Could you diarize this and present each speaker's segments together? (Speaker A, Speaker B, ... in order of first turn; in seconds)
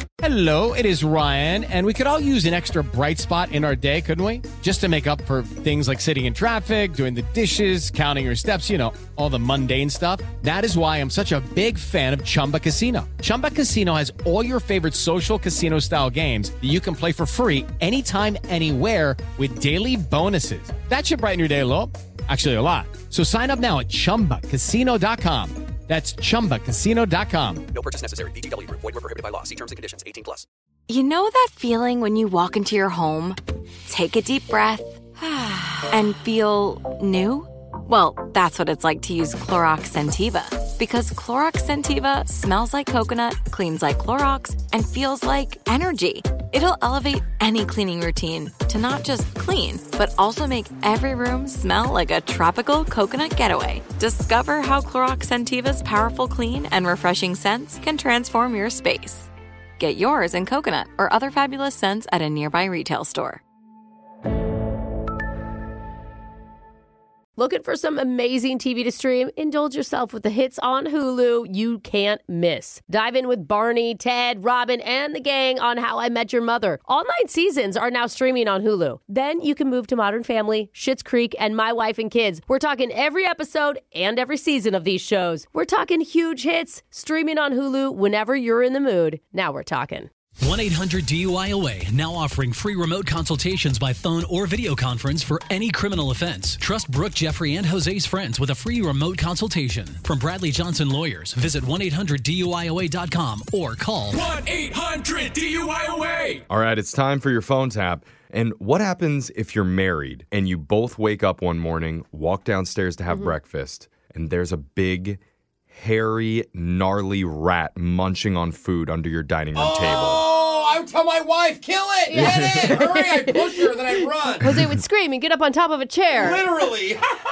Speaker A: 0.2-27.6
Speaker B: 27.7-30.4
Speaker C: 30.9-33.4, 33.9-63.4
Speaker D: 67.4-90.1, 113.1-113.4, 122.1-126.5
Speaker E: 90.4-104.4
Speaker F: 106.5-115.2, 115.7-120.3, 122.2-122.7
Speaker G: 119.5-124.5, 126.1-127.1